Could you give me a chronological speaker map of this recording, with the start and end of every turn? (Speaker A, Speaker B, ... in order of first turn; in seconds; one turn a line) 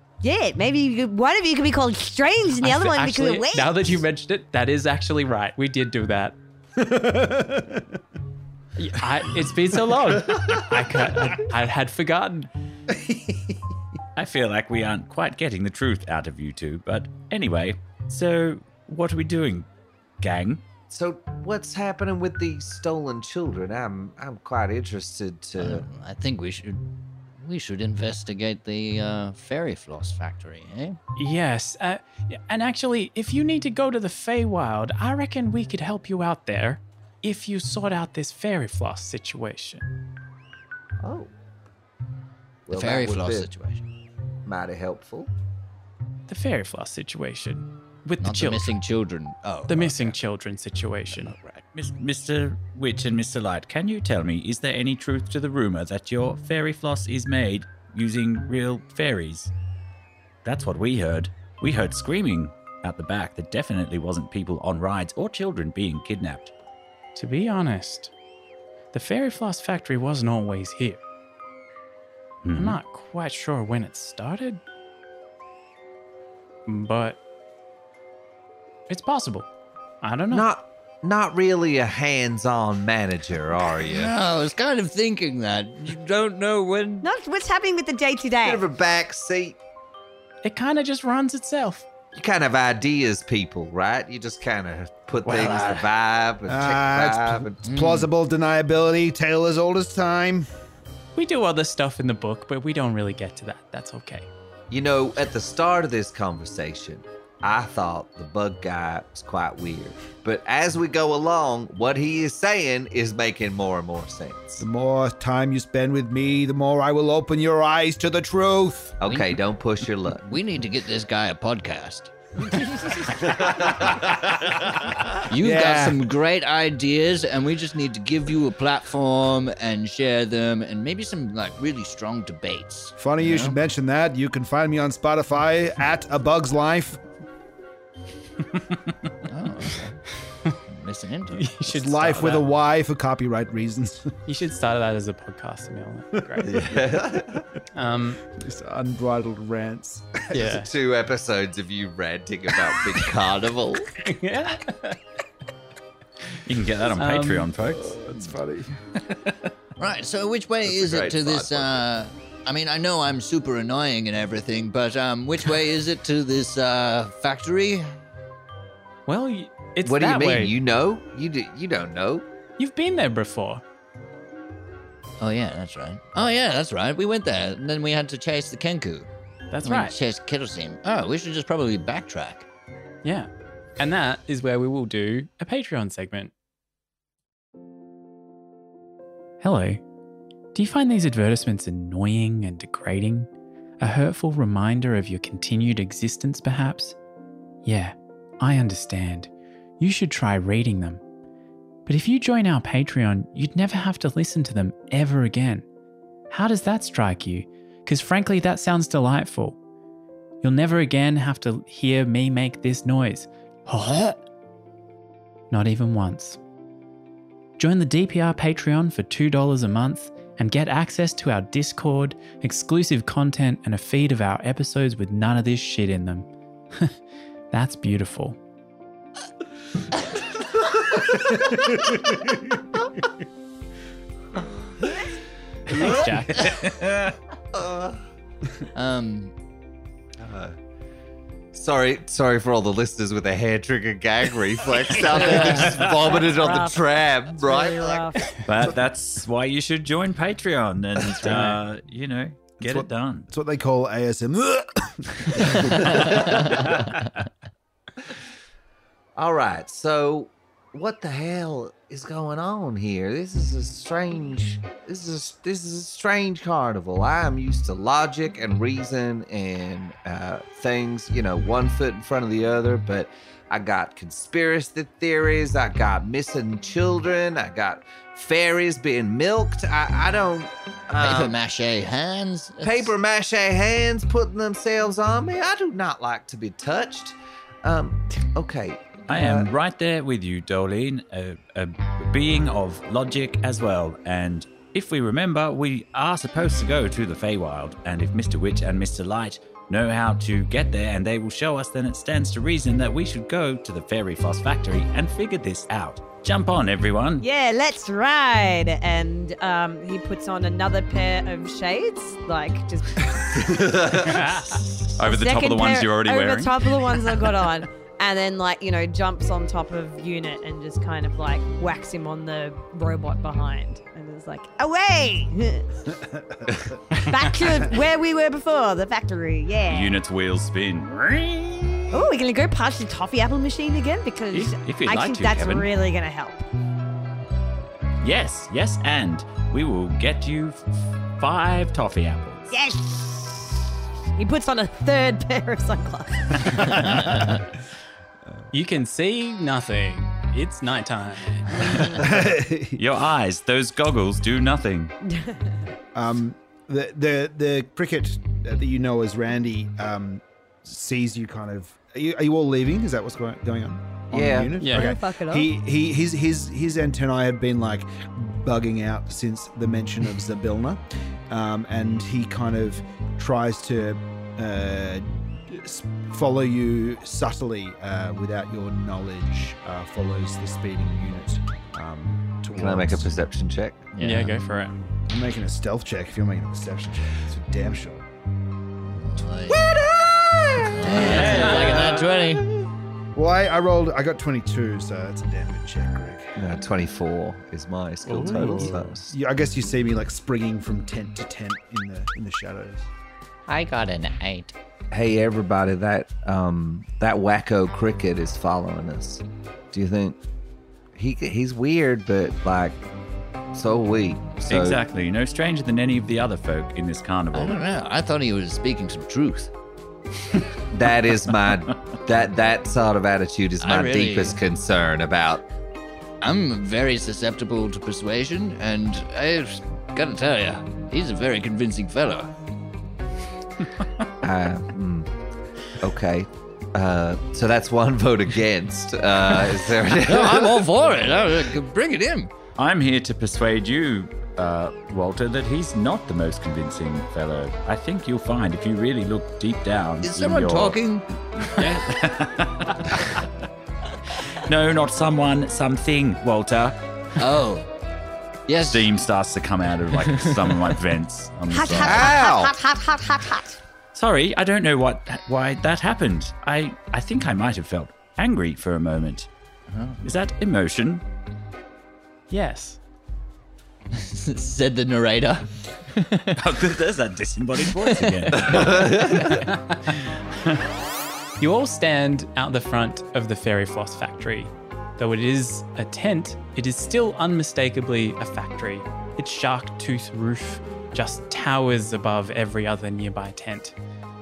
Speaker A: 0.2-4.0
Speaker B: 2.6-6.4
Speaker C: 6.8-8.0
Speaker B: 8.8-12.5
Speaker C: 12.9-13.6
Speaker D: 14.2-19.7
Speaker D: 20.2-20.6
Speaker E: 20.9-25.9
Speaker F: 25.6-31.0
Speaker B: 31.2-39.9
Speaker E: 41.0-41.3
Speaker E: 42.7-43.5
Speaker F: 42.7-43.8
Speaker E: 44.4-45.3
Speaker B: 46.3-48.8
Speaker F: 48.2-50.2
Speaker B: 49.7-51.4
Speaker F: 51.1-51.6
Speaker D: 51.7-59.5
Speaker D: 60.4-66.5
Speaker B: 67.2-68.1
Speaker B: 68.9-71.0
Speaker D: 72.4-72.8
Speaker B: 72.5-74.6
Speaker B: 76.7-77.2
Speaker B: 78.9-79.5
Speaker B: 80.0-80.5
Speaker E: 80.3-84.1
Speaker F: 83.8-87.1
Speaker A: 87.0-88.6
Speaker E: 88.4-89.6
Speaker B: 90.4-91.9
Speaker E: 92.1-97.6
Speaker C: 95.4-95.8
Speaker C: 96.5-100.5
Speaker F: 97.6-98.1
Speaker B: 101.1-104.3
Speaker E: 104.7-114.6
Speaker C: 114.6-119.0
Speaker E: 119.0-120.2
Speaker F: 119.0-119.4
Speaker F: 120.2-122.8
Speaker E: 123.1-125.1
Speaker F: 125.3-133.6
Speaker C: 125.3-126.1
Speaker C: 133.0-137.0
Speaker F: 139.3-140.0
Speaker F: 140.7-141.5
Speaker B: 141.3-142.5
Speaker C: 141.7-144.1
Speaker B: 144.2-146.6
Speaker E: 146.4-147.5
Speaker B: 147.7-148.2
Speaker C: 148.3-150.4
Speaker B: 150.3-150.7
Speaker E: 150.3-153.9
Speaker B: 154.0-155.0
Speaker D: 156.4-158.0
Speaker B: 157.0-157.5
Speaker C: 157.9-158.8
Speaker F: 159.8-167.9
Speaker E: 160.6-161.9
Speaker B: 169.1-170.5
Speaker E: 169.8-172.2
Speaker B: 172.6-173.6
Speaker F: 175.2-179.1
Speaker B: 179.5-179.9
Speaker F: 179.6-182.4
Speaker B: 183.0-186.3
Speaker B: 189.4-189.8
Speaker B: 190.5-193.3
Speaker B: 193.8-197.0
Speaker B: 197.6-201.0
Speaker B: 201.8-205.6
Speaker B: 206.3-209.6
Speaker B: 210.4-214.2
Speaker B: 215.5-216.4
Speaker B: 217.6-227.0
Speaker B: 227.5-228.4
Speaker C: 231.6-232.3
Speaker E: 235.7-236.7
Speaker B: 235.8-236.5
Speaker E: 237.5-238.0
Speaker F: 238.7-239.3
Speaker E: 240.2-240.6
Speaker E: 241.5-248.1
Speaker F: 245.2-245.7
Speaker A: 245.7-248.4
Speaker D: 248.4-253.3
Speaker B: 251.2-251.6
Speaker C: 252.6-256.6
Speaker E: 255.8-256.6
Speaker E: 259.1-281.4
Speaker F: 281.0-282.9
Speaker E: 282.6-289.5
Speaker D: 289.1-307.2
Speaker A: 307.2-313.6
Speaker E: 313.3-314.2
Speaker B: 314.0-314.6
Speaker D: 314.9-317.1
Speaker A: 315.0-325.9
Speaker C: 325.9-326.6
Speaker A: 326.9-330.0
Speaker D: 329.7-332.1
Speaker A: 331.9-336.4
Speaker D: 334.3-335.7
Speaker D: 338.0-342.5
Speaker A: 342.5-343.6
Speaker A: 344.2-347.2
Speaker F: 346.8-347.3
Speaker B: 348.5-352.0
Speaker D: 351.7-352.1
Speaker C: 352.0-352.8
Speaker D: 352.7-354.9
Speaker A: 355.2-355.6
Speaker C: 355.9-383.2
Speaker E: 364.1-364.5
Speaker B: 364.6-364.9
Speaker A: 364.7-365.5
Speaker E: 382.5-383.8
Speaker F: 383.9-384.4
Speaker B: 384.0-384.8
Speaker C: 384.9-388.1
Speaker F: 388.9-389.8
Speaker C: 389.5-391.4
Speaker F: 390.6-392.5
Speaker D: 390.9-392.1
Speaker B: 391.4-391.9
Speaker C: 393.1-396.3
Speaker E: 396.4-399.1
Speaker B: 398.1-398.8
Speaker C: 398.3-402.9
Speaker F: 403.5-404.5
Speaker E: 404.9-410.2
Speaker E: 410.9-412.8
Speaker E: 413.5-414.8
Speaker D: 414.5-417.6
Speaker F: 417.3-419.5
Speaker E: 420.7-425.4
Speaker F: 423.6-424.4
Speaker F: 426.2-432.3
Speaker E: 434.2-435.1
Speaker E: 435.8-440.6
Speaker F: 440.1-442.3
Speaker D: 442.6-453.2
Speaker F: 450.0-451.6
Speaker D: 454.3-456.8
Speaker F: 457.2-457.7
Speaker F: 458.5-458.9
Speaker D: 458.7-462.2
Speaker F: 460.1-460.4
Speaker A: 461.5-463.6
Speaker E: 461.8-462.5
Speaker D: 463.9-469.3
Speaker F: 469.7-470.0
Speaker D: 470.0-471.0
Speaker B: 472.3-472.8
Speaker F: 473.9-476.4
Speaker D: 476.4-479.3
Speaker F: 477.6-478.6
Speaker E: 478.5-479.4
Speaker B: 479.2-479.9
Speaker D: 480.4-480.6
Speaker B: 481.4-493.8